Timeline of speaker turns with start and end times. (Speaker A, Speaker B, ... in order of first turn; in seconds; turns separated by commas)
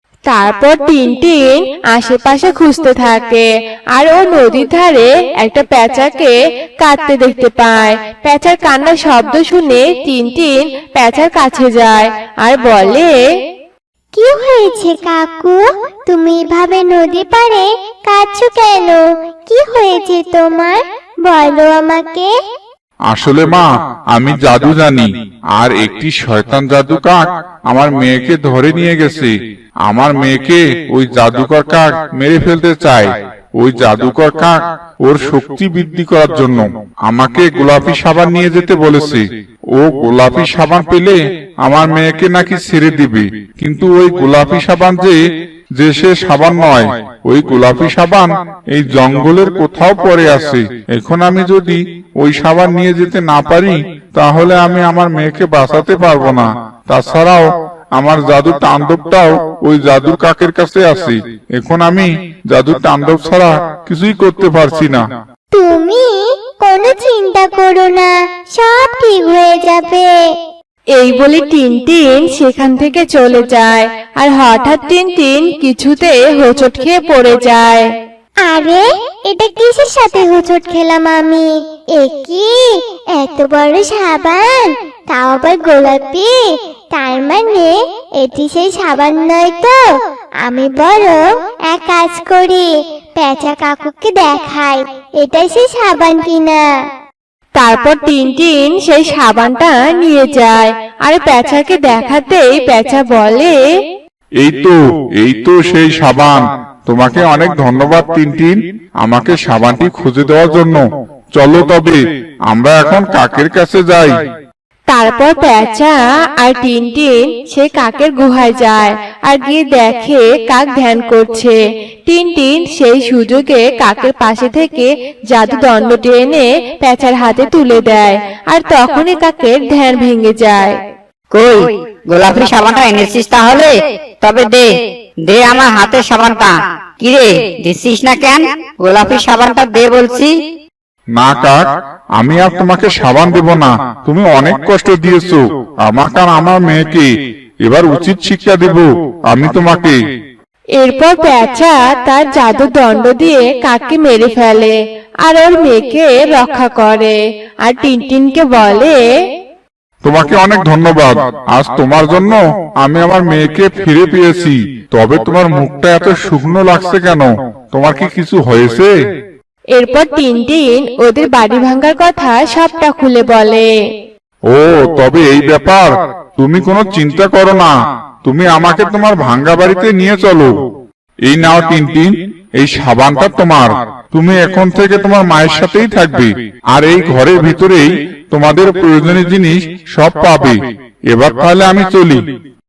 Speaker A: 0.3-13.1, Speaker B: 14.2-22.3, Speaker C: 23.1-29.3, Speaker C: 29.9-45.2, Speaker C: 45.8-57.4, Speaker C: 58.0-65.0, Speaker B: 65.5-70.1, Speaker A: 70.9-77.8, Speaker B: 78.5-86.3, Speaker B: 86.9-89.8, Speaker B: 90.4-92.7, Speaker B: 93.2-96.6, Speaker A: 97.6-103.5, Speaker C: 104.4-110.8, Speaker C: 111.3-114.1, Speaker A: 114.9-130.8, Speaker D: 131.3-134.7, Speaker D: 135.2-140.3, Speaker C: 141.2-141.6, Speaker C: 142.2-147.1, Speaker C: 147.6-150.0, Speaker A: 150.8-154.7, Speaker A: 155.2-159.0, Speaker C: 160.0-168.9, Speaker A: 169.8-173.7, Speaker C: 174.5-177.7, Speaker C: 178.2-180.5, Speaker C: 181.3-190.6, Speaker C: 191.1-192.2